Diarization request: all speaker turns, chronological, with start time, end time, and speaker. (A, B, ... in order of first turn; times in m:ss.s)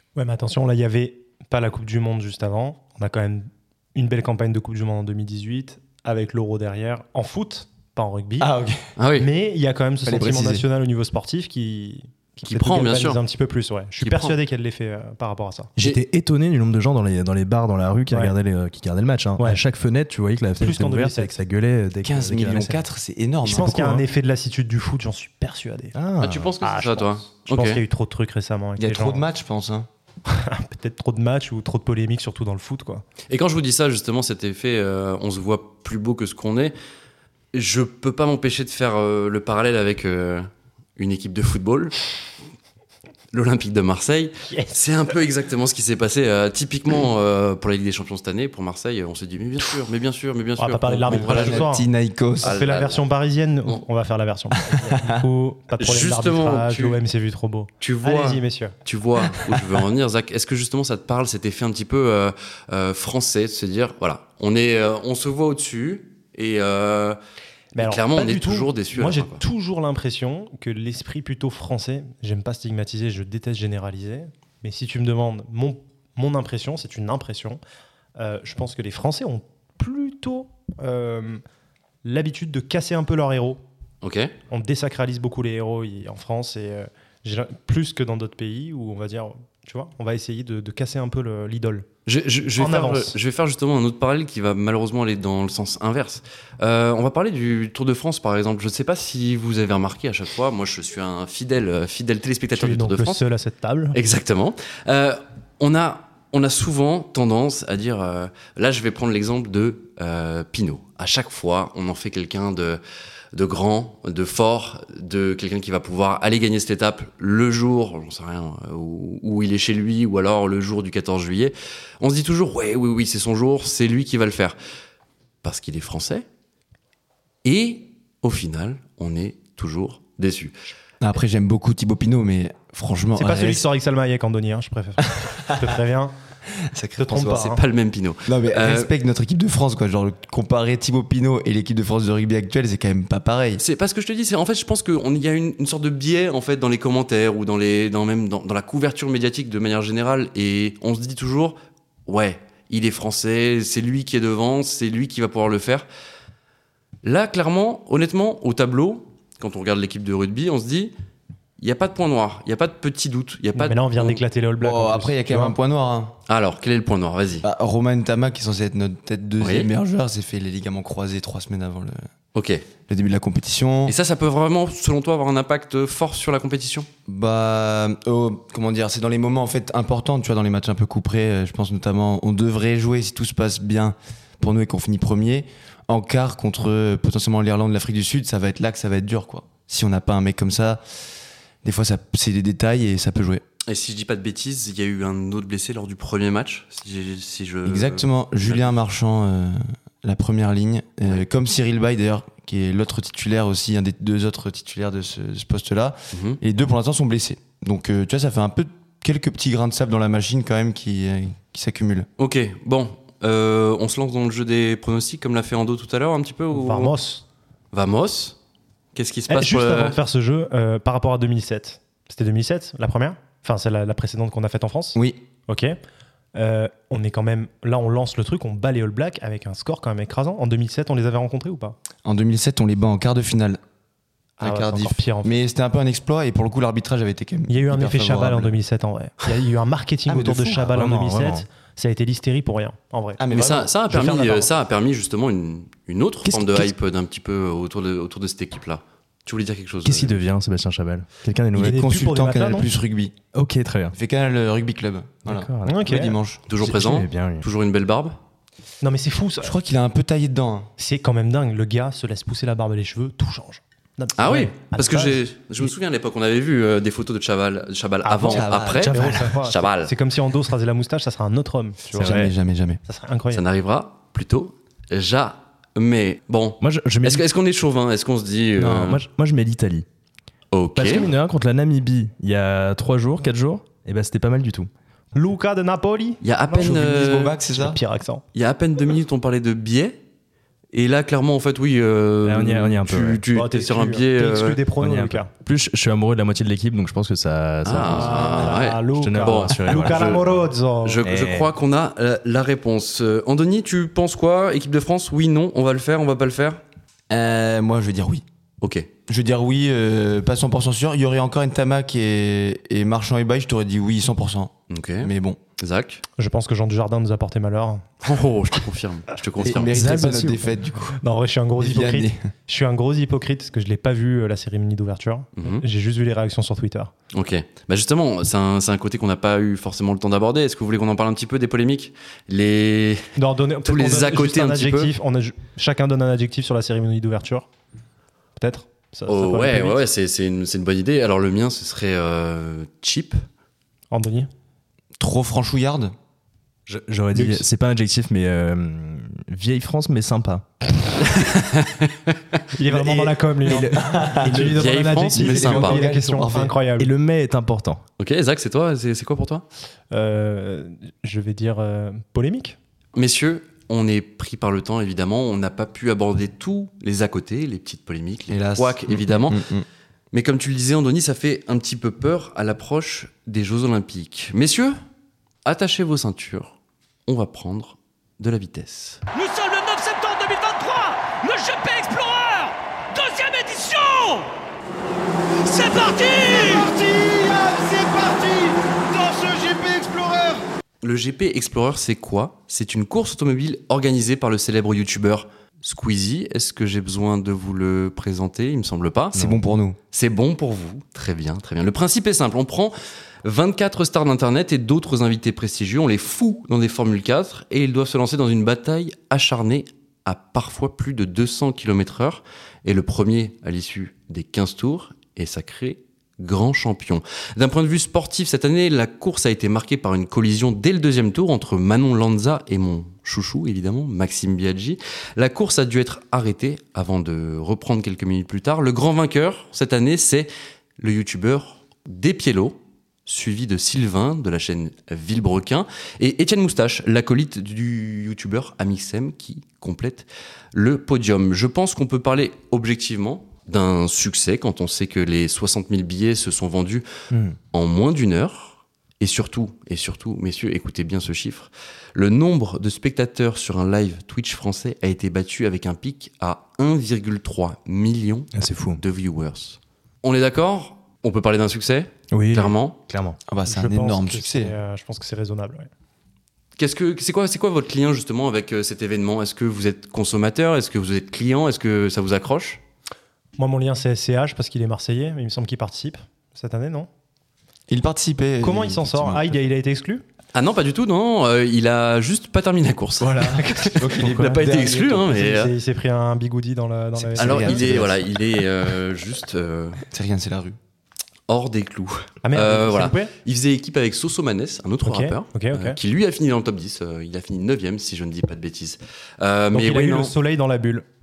0:00.1-0:08.5 A
0:08.4-0:08.8 B
0:09.0-0:09.3 C
0:09.2-0:15.7 A
0:10.0-0:10.6 B
0:12.4-0:13.2 C
0:14.0-0:14.4 C
0:15.8-0:22.8 D
0:20.6-0:21.4 A
0:22.0-0:24.0 B
0:23.4-0:26.0 A
0:25.9-0:26.5 D
0:26.2-0:27.8 C
0:26.6-0:29.2 A
0:28.8-0:29.9 B
0:30.3-0:33.0 A
0:33.3-0:36.7 C
0:37.5-0:42.0 C
0:43.3-0:51.7 C
0:50.6-0:51.8 A
0:51.1-0:52.7 B
0:52.4-0:53.0 C
0:52.4-0:58.7 A
0:54.9-0:55.2 B
0:55.8-0:57.0 C
0:57.8-1:07.2 C
1:07.7-1:17.6 A
1:07.8-1:09.4 C
1:18.2-1:21.4 A
1:22.0-1:23.6 A
1:24.0-1:24.3 C
1:24.5-1:31.9 A
1:32.0-1:43.2 C
1:32.6-1:33.2 A
1:42.5-1:44.0 A
1:43.9-1:52.8 C
1:53.3-2:04.6 C
2:05.4-2:06.2 C
2:07.4-2:10.5 C
2:11.0-2:13.6 B
2:13.1-2:16.1 A
2:15.2-2:15.7 B
2:16.6-2:17.5 B
2:17.0-2:17.6 A
2:17.3-2:18.9 C
2:18.2-2:23.6 B
2:23.6-2:35.8 C
2:37.0-2:40.9 C
2:41.6-2:44.2 C
2:43.6-2:45.5 A
2:44.6-2:46.2 B
2:46.3-2:47.4 C
2:47.4-2:52.1 B
2:49.4-2:49.7 C
2:52.3-2:52.6 C
2:52.9-2:54.0 B
2:53.9-2:56.9 C
2:57.1-3:10.8 B
3:11.6-3:13.4 B
3:13.6-3:18.7 C
3:17.6-3:32.1 B
3:26.1-3:26.4 C
3:32.2-3:36.9 C
3:36.5-3:37.2 A
3:37.7-3:38.4 C
3:38.9-3:40.0 C
3:39.3-3:45.8 A
3:44.9-3:45.2 B
3:46.3-3:51.8 A
3:52.0-3:53.6 B
3:54.4-3:55.4 A
3:54.4-3:58.5 B
3:57.5-4:03.2 A
4:00.1-4:00.6 B
4:00.6-4:01.4 D
4:03.2-4:03.7 B
4:03.3-4:10.3 C
4:03.9-4:04.5 A
4:06.2-4:06.7 D
4:09.8-4:11.8 D
4:11.5-4:13.1 B
4:11.6-4:12.7 A
4:13.3-4:13.9 D
4:13.9-4:16.4 B
4:15.2-4:15.8 D
4:15.6-4:16.2 A
4:16.5-4:18.2 C
4:16.6-4:17.4 D
4:18.8-4:19.5 A
4:19.4-4:20.7 B
4:20.8-4:25.2 A
4:24.2-4:29.9 C
4:28.0-4:32.2 A
4:28.2-4:29.2 B
4:28.8-4:29.3 D
4:31.9-4:32.8 B
4:32.0-4:32.3 D
4:32.8-4:33.4 A
4:33.3-4:39.0 C
4:36.6-4:37.2 D
4:38.6-4:39.8 D
4:40.5-4:41.1 C
4:40.7-4:44.7 D
4:45.1-4:46.8 A
4:46.2-4:47.4 C
4:46.5-4:47.8 B
4:47.5-4:48.2 A
4:48.3-4:50.0 C
4:50.7-4:54.6 C
4:52.2-4:53.2 D
4:53.3-4:55.3 A
4:54.8-5:00.4 D
4:57.6-5:00.2 C
4:57.9-5:01.0 A
5:00.8-5:06.6 C
5:01.0-5:01.5 D
5:07.1-5:08.2 B
5:08.6-5:08.9 C
5:09.1-5:15.4 B
5:14.7-5:16.0 C
5:16.2-5:17.9 A
5:18.0-5:19.7 C
5:19.4-5:21.0 B
5:19.7-5:20.5 D
5:21.0-5:26.9 A
5:21.6-5:22.3 B
5:25.4-5:25.6 C
5:27.1-5:33.1 C
5:33.2-5:37.5 A
5:33.6-5:34.9 C
5:38.4-5:39.8 A
5:39.1-5:43.2 C
5:43.9-5:44.3 A
5:45.0-5:45.9 B
5:46.7-5:50.5 D
5:47.1-5:47.4 A
5:51.0-5:52.1 C
5:52.5-5:56.9 A
5:52.8-5:54.6 B
5:53.4-5:54.6 D
5:54.4-5:55.8 C
5:55.1-5:56.5 B
5:56.8-5:57.8 D
5:58.0-5:59.4 C
5:59.9-6:02.6 A
6:02.9-6:09.4 C
6:08.3-6:09.6 B
6:10.1-6:14.8 C
6:15.4-6:16.5 C
6:17.1-6:19.0 C
6:19.1-6:24.3 E
6:25.4-6:30.4 E
6:26.6-6:27.2 B
6:30.8-6:39.2 C
6:39.1-6:39.8 B
6:39.9-7:26.8 C
7:27.1-7:27.4 D
7:27.5-7:42.8 C
7:38.3-7:38.8 D
7:42.1-7:43.2 D
7:43.3-7:44.5 B
7:43.5-7:45.7 A
7:46.6-7:52.6 C
7:53.4-7:56.9 A
7:57.7-7:59.4 B
7:58.4-8:00.0 A
8:00.3-8:05.5 C
8:03.1-8:05.2 B
8:05.0-8:07.8 A
8:07.0-8:08.2 B
8:07.2-8:09.8 C
8:09.9-8:10.6 B
8:11.3-8:20.1 C
8:12.2-8:13.1 A
8:14.8-8:15.8 A
8:19.5-8:20.8 A